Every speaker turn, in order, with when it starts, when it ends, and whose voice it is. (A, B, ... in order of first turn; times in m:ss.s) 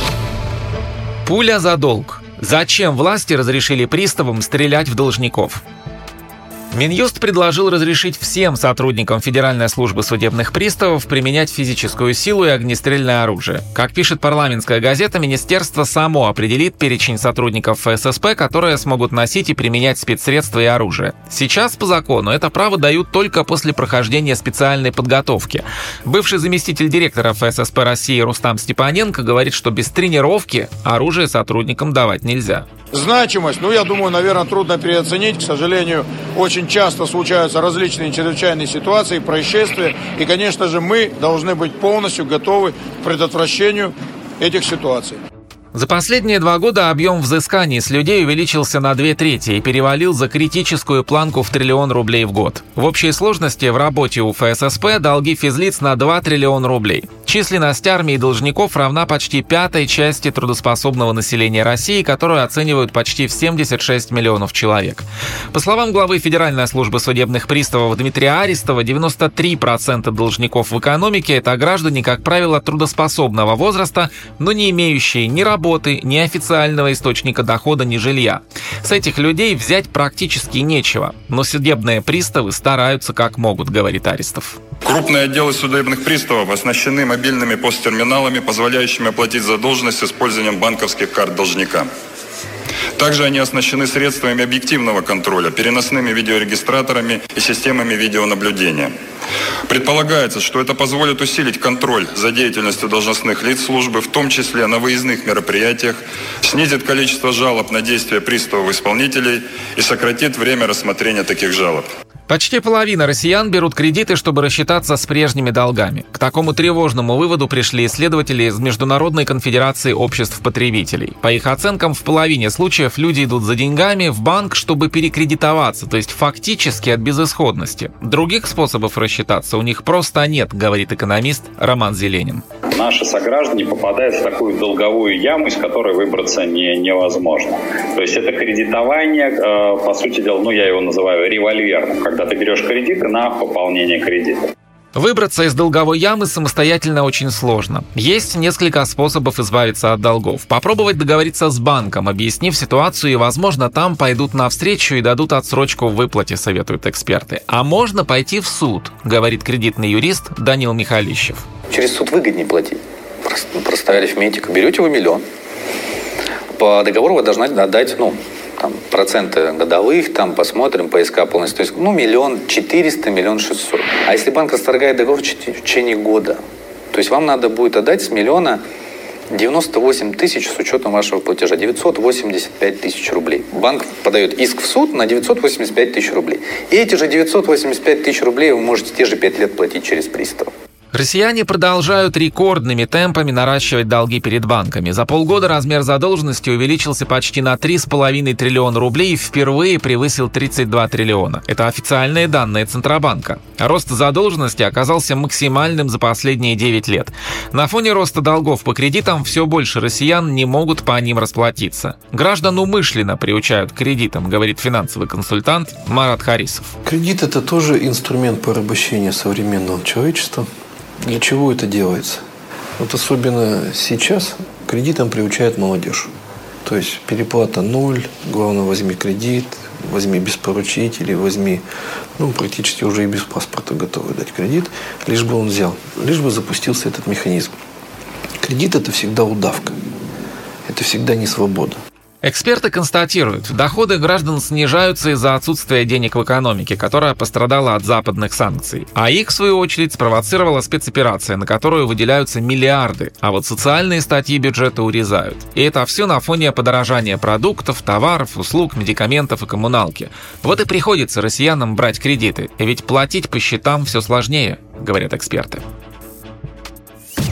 0:01.2-0:05.6 A
0:06.7-0:32.7 A
0:32.9-0:45.2 B
0:45.7-1:24.6 A
1:24.8-1:31.9 C
1:33.0-1:38.9 C
1:39.7-1:51.9 C
1:52.3-2:12.4 A
2:12.7-2:24.5 D
2:25.0-2:41.4 A
2:41.7-2:45.2 E
2:46.6-2:56.4 E
2:56.9-2:58.6 E
2:59.3-3:10.5 E
3:10.9-3:36.7 A
3:36.8-3:40.5 F
3:41.0-3:42.2 F
3:42.8-3:46.1 F
3:46.6-3:51.6 F
3:52.2-3:57.5 F
3:58.4-3:59.8 F
4:00.7-4:01.8 F
4:02.2-4:25.6 A